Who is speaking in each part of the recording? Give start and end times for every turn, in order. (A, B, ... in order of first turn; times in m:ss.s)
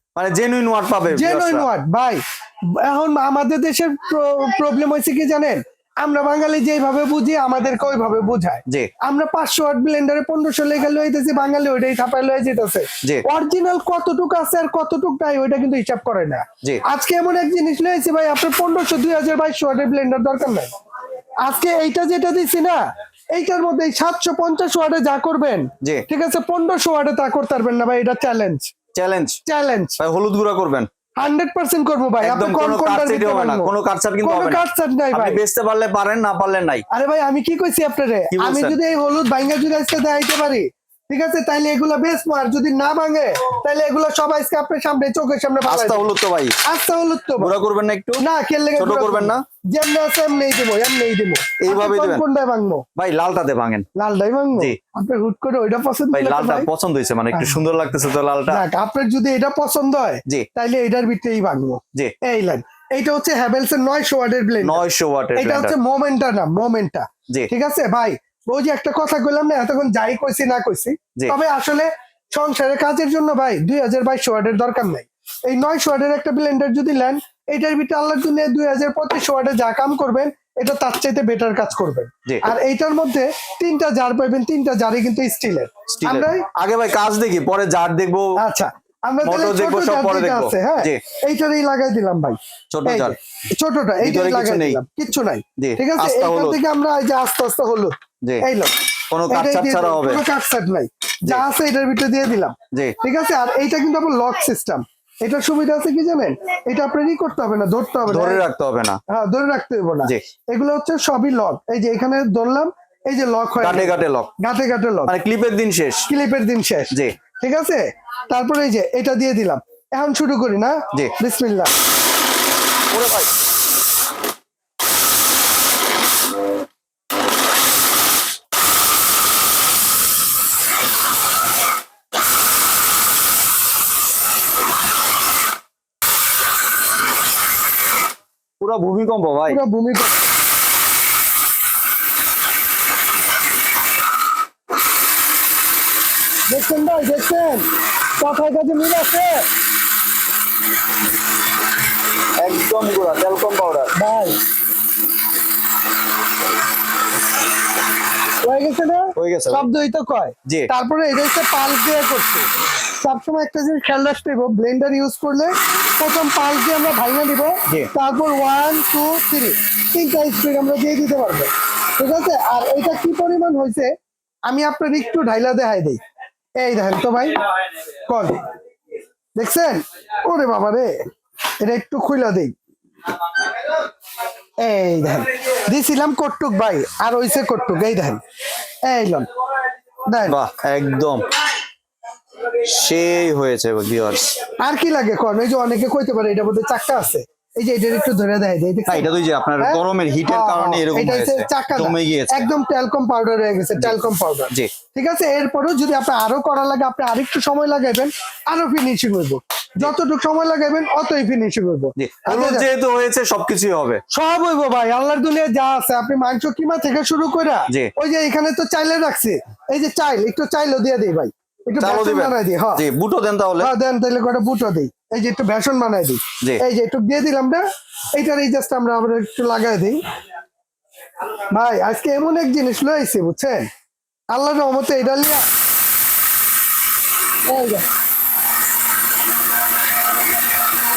0:00.2-0:01.7 A
0:01.1-0:02.2 B
0:02.8-0:20.7 B
0:21.4-0:22.8 B
0:23.4-0:28.7 B
0:28.9-0:29.4 A
0:29.5-0:30.0 B
0:30.0-0:30.9 A
0:31.2-0:35.4 B
0:32.2-0:34.6 A
0:35.1-0:36.8 A
0:36.9-0:46.1 B
0:38.3-0:38.8 A
0:45.7-0:46.6 A
0:46.7-0:47.6 B
0:47.4-0:48.2 A
0:48.2-0:52.8 B
0:48.8-0:49.4 A
0:51.6-0:52.2 A
0:53.0-0:53.9 A
0:54.0-0:56.7 B
0:56.1-0:58.6 A
0:57.3-0:57.6 B
0:58.5-1:04.8 B
1:04.6-1:05.8 A
1:05.4-1:26.5 B
1:26.0-1:28.4 A
1:28.4-1:38.7 B
1:29.2-1:31.0 A
1:32.7-1:33.2 A
1:34.0-1:34.8 A
1:35.6-1:36.6 A
1:39.1-1:40.2 A
1:39.3-1:48.4 B
1:48.1-1:49.0 A
1:49.1-1:55.1 B
1:53.6-1:54.3 A
1:55.1-1:56.1 A
1:56.1-2:01.7 B
1:56.9-1:57.2 A
2:02.9-2:03.3 A
2:18.6-2:19.6 A
2:19.5-2:20.2 B
2:26.5-2:27.7 B
2:28.2-2:29.5 B
2:32.4-2:33.9 A
2:34.0-2:34.4 B
2:38.4-2:42.5 B
2:39.2-2:39.6 A
2:43.0-2:53.9 B
2:54.5-2:56.0 B
2:56.6-2:57.4 B
2:58.1-2:58.5 B
2:59.4-3:01.0 B
3:01.6-3:02.5 B
3:04.6-3:08.2 B
3:08.8-3:09.3 B
3:10.1-3:10.4 B
3:10.3-3:11.2 A
3:12.6-3:14.3 A
3:14.6-3:32.7 B
3:18.9-3:22.5 A
3:32.0-3:34.0 A
3:34.1-3:42.8 B
3:41.8-3:43.7 A
3:43.6-3:47.6 B
3:48.2-3:50.0 B
3:51.5-3:53.7 B
3:54.3-3:55.4 B
3:57.5-3:57.9 B